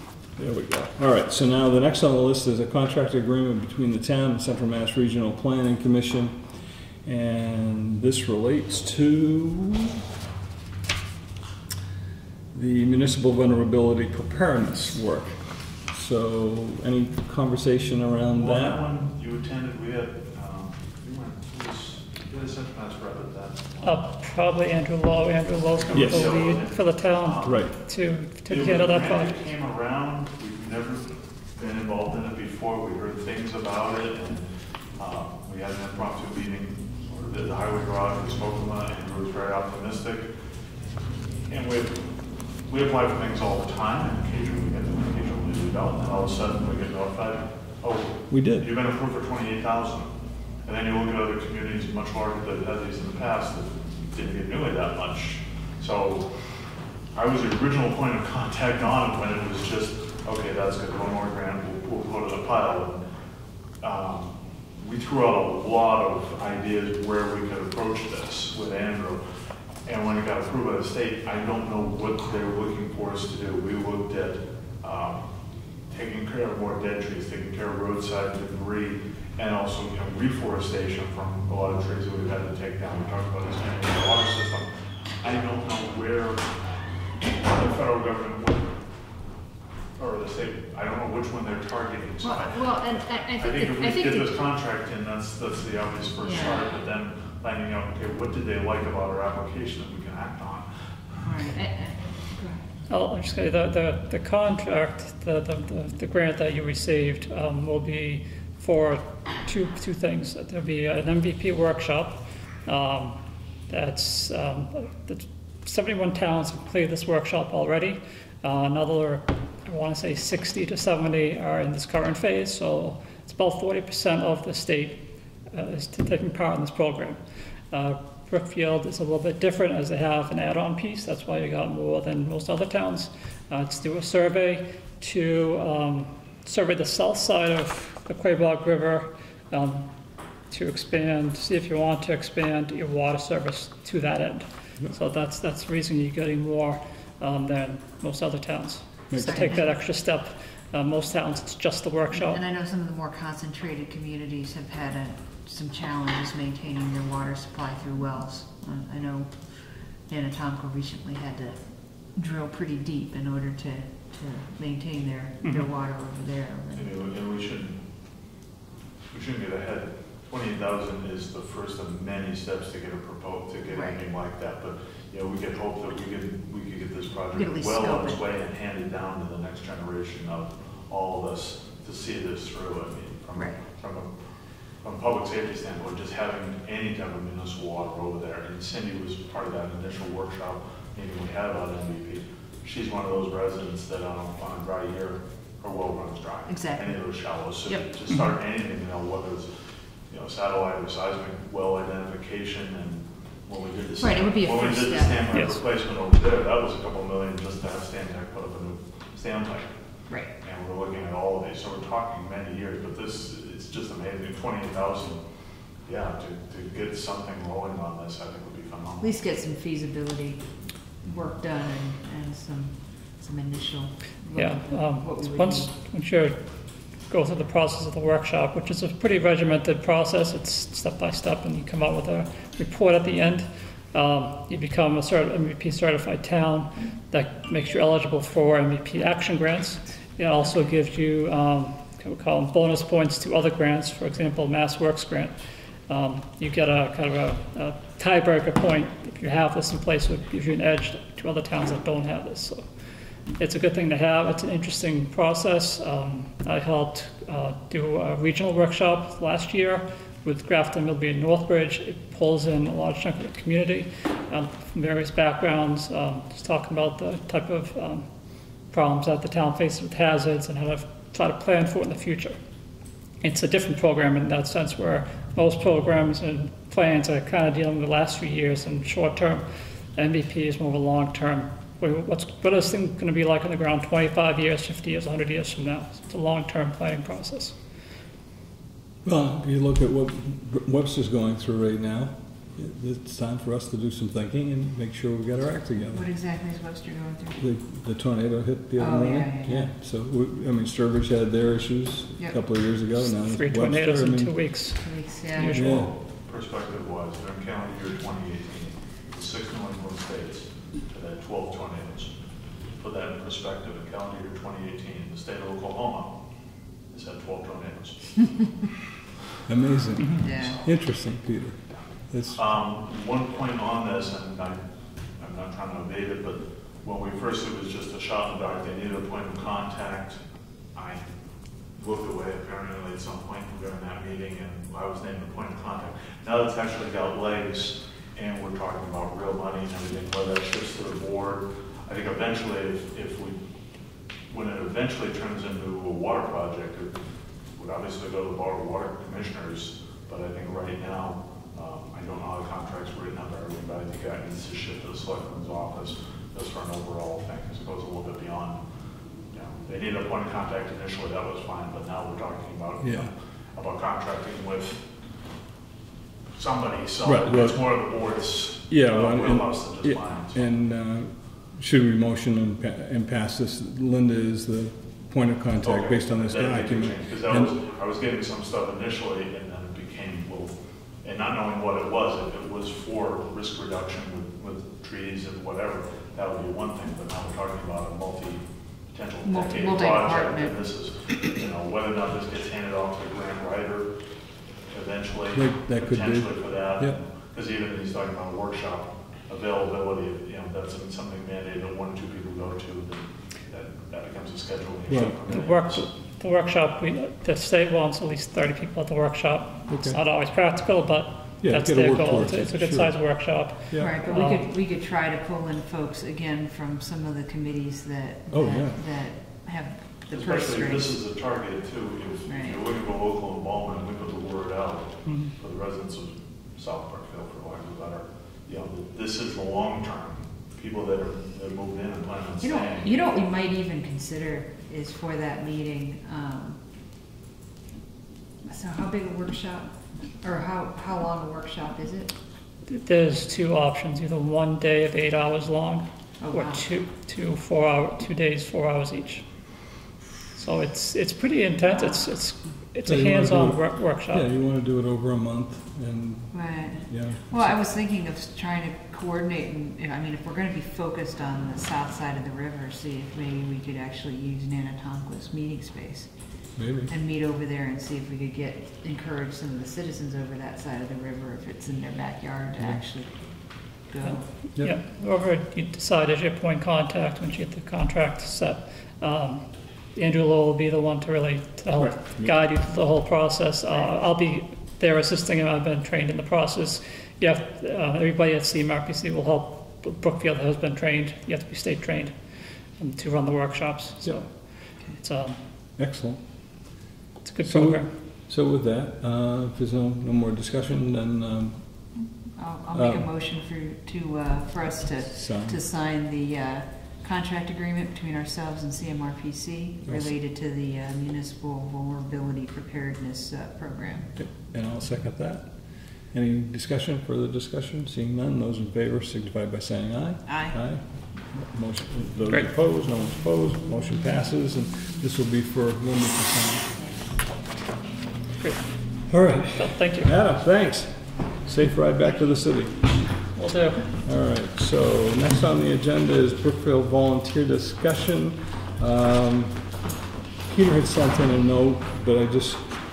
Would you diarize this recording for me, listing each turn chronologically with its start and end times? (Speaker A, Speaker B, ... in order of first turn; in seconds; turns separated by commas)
Speaker A: 0.3-6.4, Speaker A: 7.0-10.0, Speaker A: 12.5-18.9, Speaker B: 18.3-23.7, Speaker C: 23.8-29.4, Speaker B: 25.8-27.7, Speaker A: 25.9-26.4, Speaker A: 27.4-27.7, Speaker B: 28.5-40.3, Speaker B: 41.5-42.0, Speaker B: 42.7-50.1, Speaker A: 48.3-48.7, Speaker B: 50.6-56.4, Speaker B: 57.1-63.0, Speaker B: 63.8-69.2, Speaker B: 69.8-75.2, Speaker B: 75.9-84.7, Speaker B: 85.2-86.5, Speaker B: 87.4-88.8, Speaker B: 90.0-100.7, Speaker D: 92.2-94.4, Speaker D: 96.2-96.7, Speaker D: 101.2-102.7, Speaker C: 102.9-127.2, Speaker C: 127.7-139.9, Speaker C: 140.5-152.4, Speaker A: 149.1-149.6, Speaker D: 149.2-149.7, Speaker D: 152.1-167.0, Speaker B: 166.7-167.8, Speaker B: 169.1-184.1, Speaker D: 173.7-174.0, Speaker D: 177.3-178.2, Speaker D: 183.3-183.6, Speaker B: 184.8-199.5, Speaker D: 196.4-197.0, Speaker B: 200.1-209.7, Speaker D: 204.0-205.3, Speaker C: 205.3-205.6, Speaker D: 210.1-210.3, Speaker B: 210.4-215.2, Speaker B: 215.8-219.1, Speaker D: 219.0-225.7, Speaker C: 224.3-226.5, Speaker C: 227.1-245.3, Speaker C: 245.9-252.7, Speaker C: 253.4-268.1, Speaker C: 268.7-272.4, Speaker C: 273.2-287.6, Speaker A: 289.0-296.1, Speaker D: 295.9-297.4, Speaker A: 297.4-304.3, Speaker D: 298.8-299.7, Speaker C: 303.1-305.9, Speaker D: 304.8-305.7, Speaker A: 305.5-305.9, Speaker B: 305.6-312.1, Speaker B: 312.8-316.1, Speaker B: 316.9-318.6, Speaker A: 319.4-322.4, Speaker D: 320.1-320.6, Speaker B: 322.3-324.6, Speaker B: 325.2-330.2, Speaker B: 330.7-331.1, Speaker B: 331.8-343.4, Speaker B: 344.3-346.9, Speaker B: 347.6-358.6, Speaker B: 359.3-364.8, Speaker A: 362.8-363.1, Speaker B: 366.4-370.4, Speaker A: 367.0-367.7, Speaker A: 368.7-377.5, Speaker B: 375.6-393.9, Speaker D: 389.2-390.6, Speaker B: 394.7-405.9, Speaker A: 395.3-397.0, Speaker A: 404.9-405.2, Speaker C: 405.3-414.5, Speaker A: 409.7-410.0, Speaker A: 411.4-412.9, Speaker A: 413.7-414.1, Speaker D: 413.8-420.9, Speaker A: 418.3-418.8, Speaker B: 420.1-432.9, Speaker D: 422.2-422.6, Speaker D: 432.4-436.6, Speaker D: 438.4-442.1, Speaker C: 442.7-449.2, Speaker D: 446.2-446.7, Speaker C: 450.3-454.2, Speaker D: 451.7-452.0, Speaker A: 452.9-457.6, Speaker D: 456.3-466.1, Speaker A: 466.6-466.9, Speaker D: 466.9-474.2, Speaker C: 474.0-492.2, Speaker A: 481.8-482.3, Speaker C: 492.8-495.4, Speaker A: 495.8-496.2, Speaker C: 497.2-497.9, Speaker A: 497.4-501.6, Speaker D: 502.4-514.1, Speaker A: 502.7-503.1, Speaker A: 505.1-505.6, Speaker A: 514.1-515.5, Speaker A: 516.1-526.7, Speaker D: 520.2-520.6, Speaker C: 528.4-528.9, Speaker A: 529.1-533.0, Speaker C: 529.6-530.1, Speaker C: 533.3-533.9, Speaker A: 534.0-539.6, Speaker A: 540.5-542.7